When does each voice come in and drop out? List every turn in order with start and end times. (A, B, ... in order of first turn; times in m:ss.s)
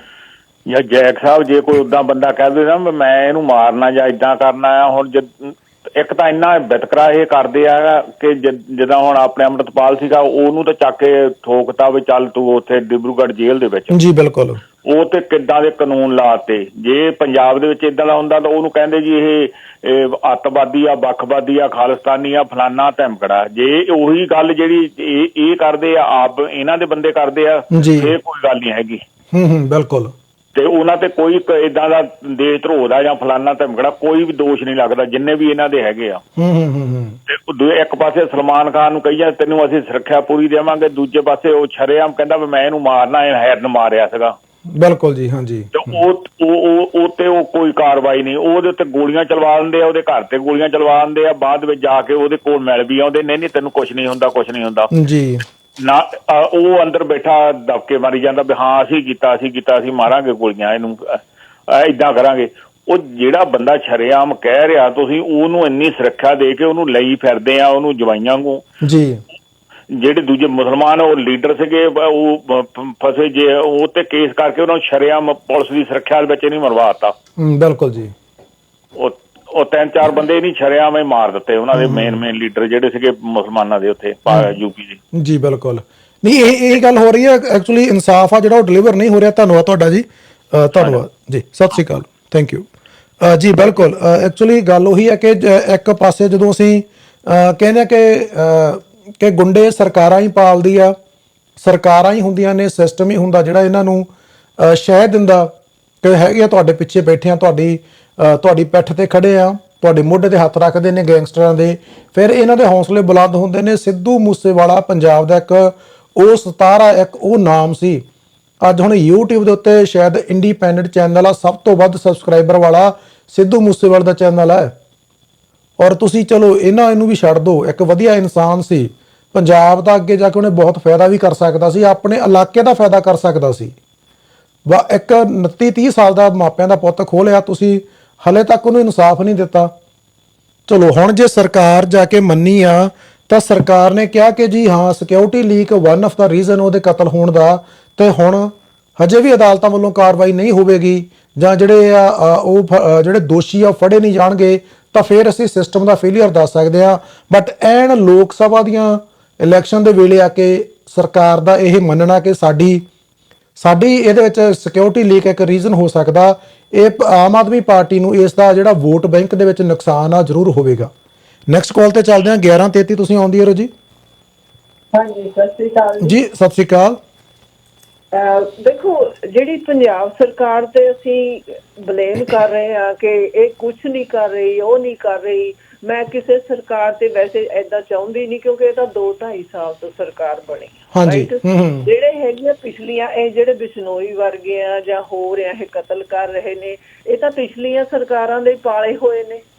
0:00.7-0:14.0 A
0:13.9-0:14.6 B
0:14.8-0:29.0 A
0:27.7-0:28.2 B
0:29.3-0:30.1 B
0:30.6-0:36.2 A
0:36.4-0:37.2 B
0:37.3-0:44.4 A
0:44.7-0:46.0 B
0:45.7-0:54.9 A
0:54.9-0:55.4 B
0:55.8-1:08.6 A
1:08.8-1:09.2 B
1:09.9-1:17.2 A
1:17.4-1:18.1 B
1:19.0-1:25.0 A
1:21.8-1:22.2 B
1:24.3-1:24.5 B
1:25.1-1:32.7 B
1:33.2-1:41.0 B
1:41.6-1:45.5 B
1:46.0-1:58.0 B
1:58.6-2:04.7 B
2:05.8-2:13.7 B
2:14.7-2:19.7 B
2:20.7-2:42.8 B
2:43.6-2:50.9 B
2:51.5-2:53.7 B
2:54.9-2:56.2 C
2:56.0-2:57.0 B
2:58.1-3:19.4 C
3:10.9-3:11.9 B